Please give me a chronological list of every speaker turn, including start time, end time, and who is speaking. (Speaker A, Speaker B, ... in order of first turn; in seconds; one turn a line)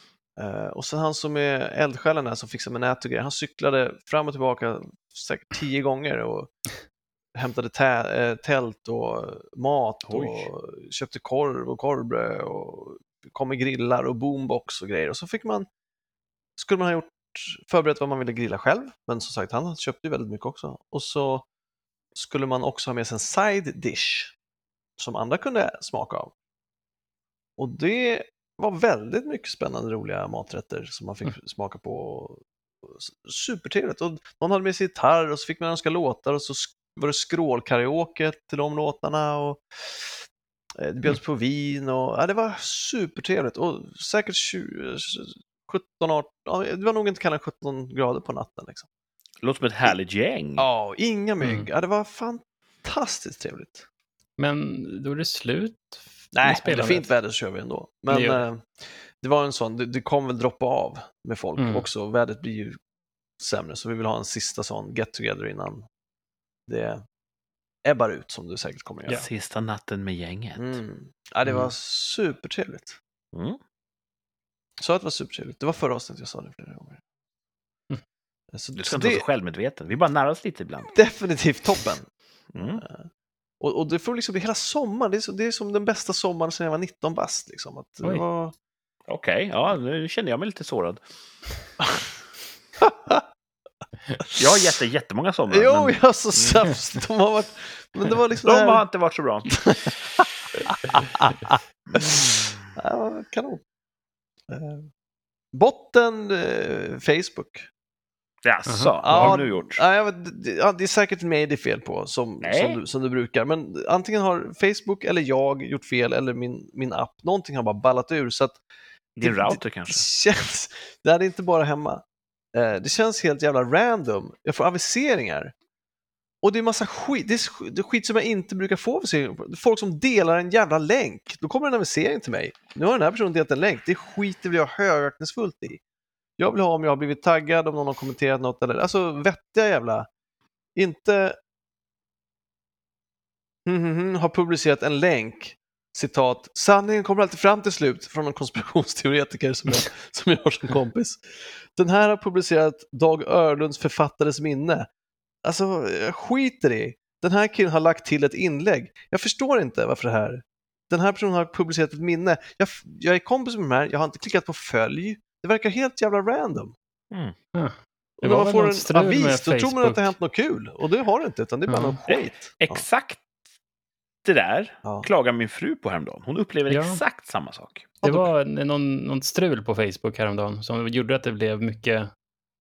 Speaker A: 0.4-6.5
Speaker A: 7.3-15.7
Speaker B: 10.0-10.5
Speaker A: 16.6-21.4
Speaker A: 22.1-24.3
Speaker A: 25.0-26.3
Speaker A: 27.6-40.2
Speaker A: 40.8-48.9
Speaker B: 49.4-50.6
Speaker A: 50.6-53.8
Speaker C: 51.4-51.7
Speaker C: 54.4-57.1
Speaker A: 56.3-62.8
Speaker C: 58.1-58.4
Speaker C: 61.6-61.9
Speaker A: 63.4-65.9
Speaker A: 66.7-67.0
Speaker A: 67.8-69.2
Speaker B: 69.1-70.8
Speaker A: 70.5-73.0
Speaker B: 73.3-73.6
Speaker A: 74.8-77.0
Speaker A: 78.5-79.2
Speaker B: 78.7-80.9
Speaker A: 80.9-82.1
Speaker B: 82.5-82.8
Speaker A: 82.8-83.1
Speaker A: 83.6-88.5
Speaker B: 89.1-91.0
Speaker A: 92.8-93.2
Speaker B: 94.3-96.7
Speaker A: 95.5-98.8
Speaker B: 98.4-100.2
Speaker A: 100.9-102.2
Speaker A: 102.7-103.6
Speaker A: 104.5-104.9
Speaker A: 105.5-107.7
Speaker B: 108.4-109.8
Speaker C: 108.7-109.3
Speaker A: 109.0-118.6
Speaker B: 112.4-112.8
Speaker B: 119.2-120.0
Speaker A: 119.2-125.5
Speaker A: 126.4-135.8
Speaker A: 136.4-140.1
Speaker A: 140.8-141.4
Speaker A: 143.7-154.9
Speaker A: 155.4-166.7
Speaker C: 167.5-170.1
Speaker A: 168.2-172.8
Speaker C: 171.7-172.0
Speaker B: 172.1-173.2
Speaker B: 174.2-177.9
Speaker C: 176.7-177.0
Speaker A: 178.0-178.3
Speaker C: 178.0-182.1